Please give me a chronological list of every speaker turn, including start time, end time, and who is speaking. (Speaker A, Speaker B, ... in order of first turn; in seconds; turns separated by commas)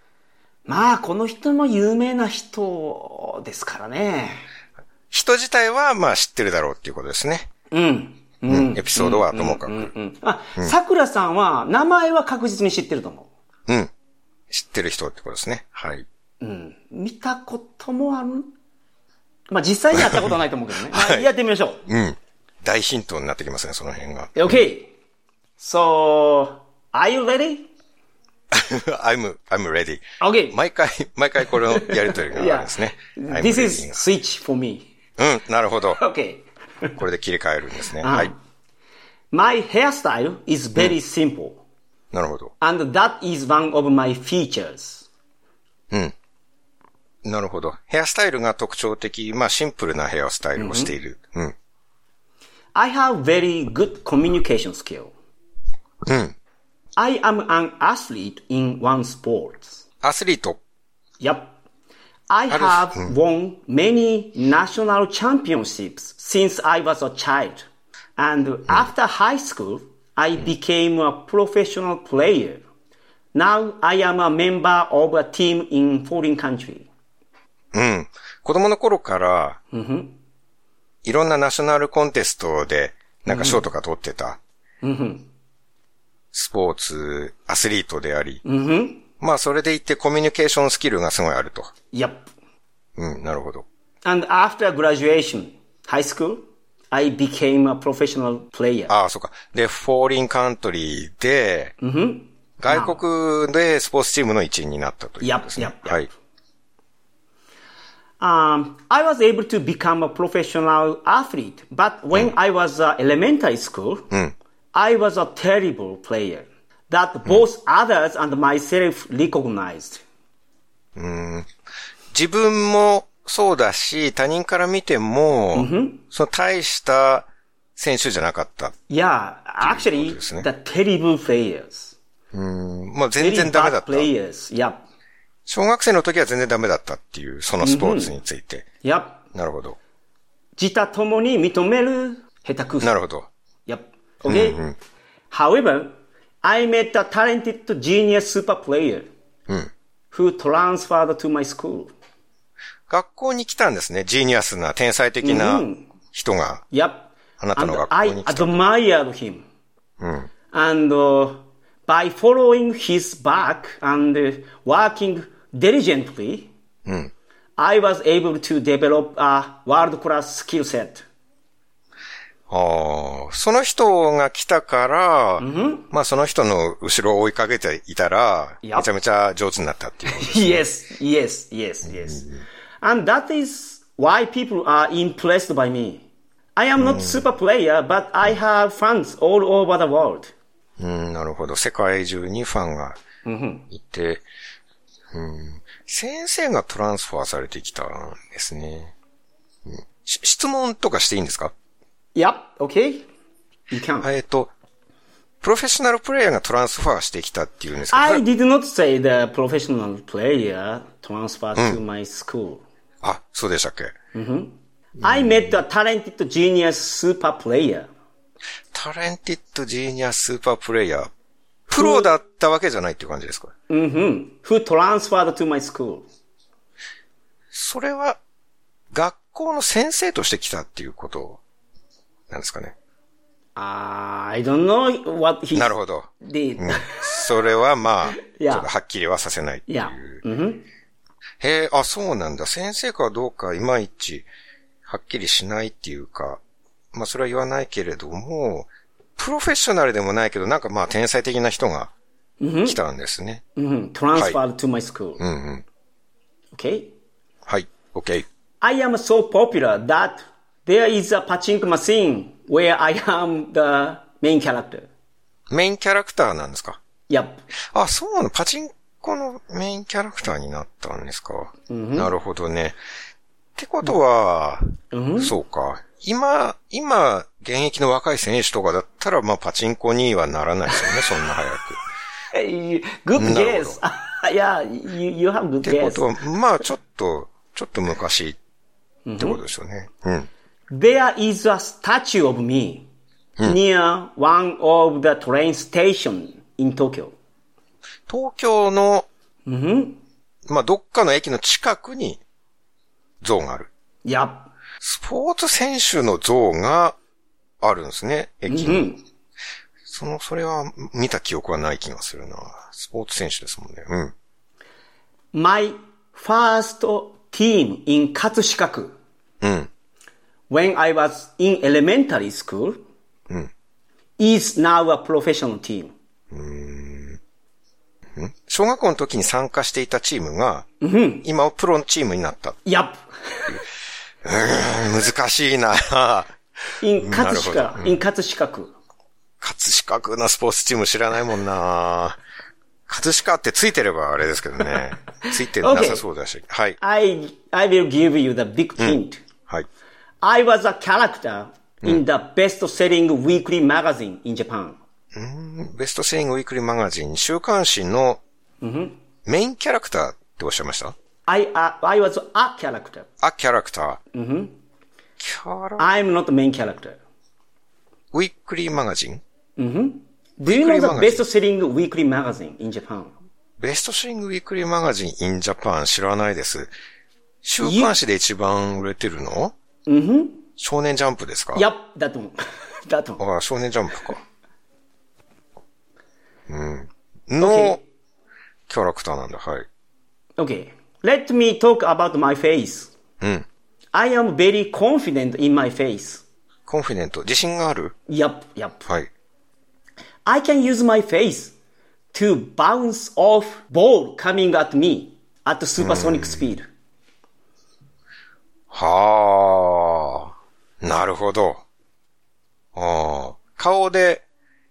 Speaker A: 0.7-4.5, Speaker B: 5.1-7.5, Speaker A: 7.7-13.3, Speaker B: 8.5-9.9, Speaker B: 14.5-16.1, Speaker A: 16.4-18.5, Speaker A: 19.5-21.8, Speaker B: 19.9-20.3, Speaker B: 20.9-21.3, Speaker B: 21.9-24.4, Speaker A: 24.4-24.9, Speaker A: 25.6-27.7, Speaker B: 28.5-34.0, Speaker A: 30.2-30.6, Speaker A: 31.8-34.9, Speaker B: 35.2-36.0, Speaker A: 36.0-36.9, Speaker B: 37.0-38.3, Speaker A: 38.0-38.4, Speaker A: 39.3-41.6, Speaker B: 42.1-42.5, Speaker A: 42.6-45.1, Speaker B: 47.2-51.5, Speaker A: 50.6-50.9, Speaker A: 52.8-55.1, Speaker B: 56.0-56.4, Speaker A: 57.0-59.8, Speaker B: 60.0-60.6, Speaker A: 61.2-61.5, Speaker A: 62.3-67.6, Speaker B: 62.5-63.1, Speaker A: 68.2-72.7, Speaker A: 73.3-76.9, Speaker B: 77.7-79.6, Speaker A: 79.7-80.2, Speaker B: 81.0-84.4, Speaker A: 83.3-83.6, Speaker A: 84.8-85.3, Speaker B: 86.3-88.4, Speaker A: 88.4-89.0, Speaker B: 89.2-91.7, Speaker A: 91.9-92.2, Speaker B: 93.0-93.7, Speaker A: 94.0-98.9, Speaker B: 98.9-101.7, Speaker A: 101.8-103.0, Speaker B: 102.6-106.1, Speaker A: 105.2-106.1, Speaker A: 108.2-114.1, Speaker A: 114.7-120.0, Speaker B: 121.0-121.5, Speaker B: 122.1-128.8, Speaker A: 125.5-126.0, Speaker A: 128.9-132.0, Speaker B: 129.6-130.5, Speaker B: 132.3-134.1, Speaker A: 133.2-134.8, Speaker B: 135.5-138.7, Speaker A: 137.6-138.2, Speaker A: 138.8-139.2, Speaker B: 139.3-139.8, Speaker A: 140.6-143.0, Speaker B: 142.8-143.3, Speaker A: 143.7-144.6, Speaker B: 144.3-144.8, Speaker A: 145.3-149.1, Speaker A: 150.1-151.9, Speaker B: 152.9-156.7, Speaker A: 155.2-155.9, Speaker A: 156.7-159.4, Speaker B: 157.4-158.6, Speaker B: 160.0-160.3, Speaker A: 160.5-166.5, Speaker B: 166.9-167.1, Speaker A: 167.6-171.1, Speaker B: 172.5-180.6, Speaker A: 175.4-175.9, Speaker A: 178.6-178.9, Speaker A: 180.1-190.3, Speaker B: 182.0-182.4, Speaker B: 186.8-187.3, Speaker B: 190.8-193.0, Speaker A: 193.2-193.7, Speaker B: 193.7-194.3, Speaker B: 195.1-198.9, Speaker B: 199.7-201.5, Speaker A: 202.2-203.1, Speaker A: 203.7-204.1, Speaker B: 204.0-204.5, Speaker B: 205.4-208.2, Speaker A: 207.9-212.6, Speaker B: 211.6-211.8, Speaker B: 213.0-213.9, Speaker A: 214.1-217.9, Speaker B: 215.0-215.6, Speaker B: 218.7-221.1, Speaker B: 221.7-223.5, Speaker A: 221.8-222.1, Speaker A: 223.7-226.1, Speaker B: 227.5-228.2, Speaker B: 228.9-231.4, Speaker B: 232.3-232.8, Speaker A: 233.6-235.7, Speaker B: 235.6-240.2, Speaker A: 236.2-237.3, Speaker A: 238.2-238.7, Speaker A: 239.7-240.7, Speaker B: 241.4-244.3, Speaker B: 244.8-246.4, Speaker B: 246.9-251.9, Speaker A: 252.4-252.8, Speaker B: 252.7-253.4, Speaker A: 253.6-255.2, Speaker B: 255.2-255.7, Speaker A: 256.5-256.9, Speaker B: 257.5-258.3, Speaker A: 258.6-264.9, Speaker B: 265.5-266.8, Speaker A: 267.1-267.4, Speaker B: 267.7-272.8, Speaker A: 271.7-272.1, Speaker B: 273.6-274.6, Speaker A: 274.9-275.4, Speaker B: 275.2-281.8, Speaker A: 282.3-286.1, Speaker B: 283.2-283.8, Speaker B: 285.6-288.4, Speaker A: 289.1-289.4, Speaker B: 289.2-290.3, Speaker A: 290.7-292.9, Speaker A: 293.4-297.1, Speaker B: 298.1-299.1, Speaker A: 299.5-300.0, Speaker B: 300.5-302.2, Speaker B: 303.2-303.7, Speaker A: 304.1-304.5, Speaker B: 304.8-307.0, Speaker B: 307.6-308.9, Speaker A: 308.5-309.0, Speaker B: 309.9-314.1, Speaker A: 315.3-319.0, Speaker B: 319.4-319.7, Speaker A: 320.5-322.9, Speaker A: 324.2-325.9, Speaker B: 326.3-327.2, Speaker B: 328.2-330.7, Speaker A: 330.8-331.2, Speaker B: 331.2-332.6, Speaker A: 332.6-333.6, Speaker B: 334.2-336.3, Speaker A: 336.8-338.7, Speaker B: 337.0-338.0, Speaker B: 339.4-342.2, Speaker B: 342.9-346.8, Speaker A: 345.6-346.0, Speaker A: 346.8-349.2, Speaker B: 348.8-349.7, Speaker A: 350.2-354.8, Speaker B: 355.1-358.2, Speaker A: 358.6-359.0, Speaker B: 359.3-360.9, Speaker A: 361.3-363.1, Speaker B: 363.2-364.0, Speaker A: 364.1-364.6, Speaker B: 365.2-365.9, Speaker A: 365.8-367.0, Speaker B: 368.1-369.2, Speaker A: 369.6-373.1, Speaker B: 370.5-371.2, Speaker B: 373.6-376.7, Speaker B: 377.4-379.5, Speaker A: 377.6-377.9, Speaker A: 379.9-380.4, Speaker B: 380.6-381.6, Speaker A: 381.6-383.2, Speaker B: 383.2-384.2, Speaker B: 386.5-387.8, Speaker A: 387.4-387.8, Speaker B: 388.7-389.7, Speaker A: 390.4-392.9, Speaker B: 393.2-393.5, Speaker A: 393.9-396.2, Speaker B: 396.7-397.9, Speaker A: 398.1-398.9, Speaker A: 400.2-401.6, Speaker A: 402.1-406.7, Speaker B: 405.8-406.5, Speaker B: 408.7-411.6, Speaker B: 412.8-414.3